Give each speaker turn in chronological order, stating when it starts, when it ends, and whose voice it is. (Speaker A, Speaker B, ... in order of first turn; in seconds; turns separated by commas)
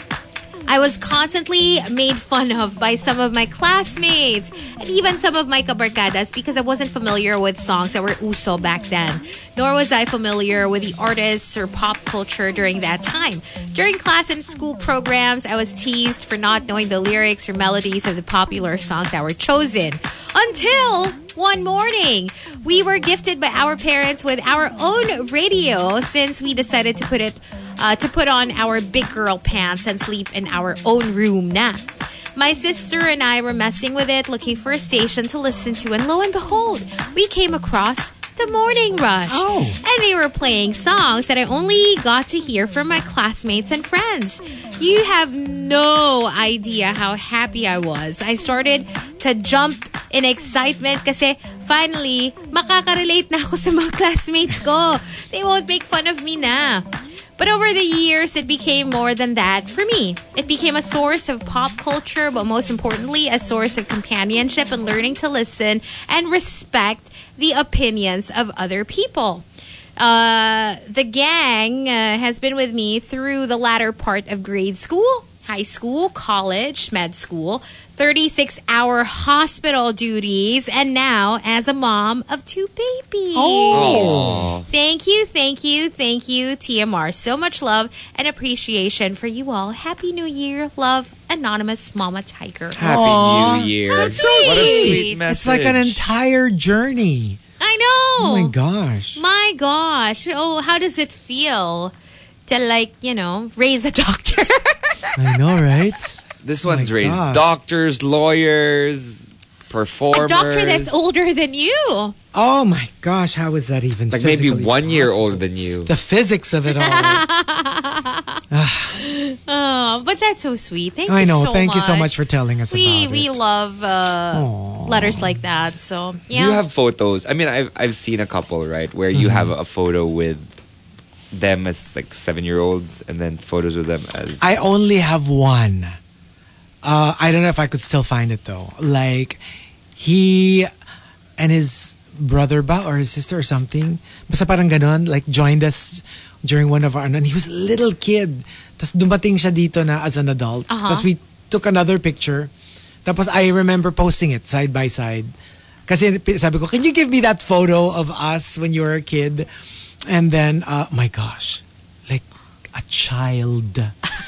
Speaker A: 0.7-31.9, Speaker A: 32.4-56.9, Speaker B: 39.3-39.8, Speaker A: 57.4-69.5, Speaker A: 70.0-93.0, Speaker B: 83.3-84.5, Speaker C: 83.7-84.7, Speaker B: 92.8-97.4, Speaker C: 92.8-96.0, Speaker A: 93.9-95.2, Speaker A: 97.6-98.5, Speaker B: 98.2-99.2, Speaker A: 99.2-101.9, Speaker A: 102.5-105.6, Speaker B: 105.2-107.4, Speaker C: 106.4-111.0, Speaker A: 110.1-112.2, Speaker B: 112.3-117.2, Speaker C: 114.1-115.9, Speaker A: 116.7-118.4, Speaker B: 118.5-119.0, Speaker A: 119.0-122.1, Speaker B: 121.1-123.4, Speaker A: 122.7-126.6, Speaker B: 124.3-125.4, Speaker C: 126.3-130.5, Speaker B: 129.1-129.5, Speaker C: 131.3-134.5, Speaker B: 134.4-135.9, Speaker B: 136.8-139.4, Speaker B: 140.0-140.7, Speaker B: 141.4-152.5, Speaker A: 150.7-151.1, Speaker B: 153.1-155.3, Speaker B: 155.9-159.5, Speaker B: 160.1-163.9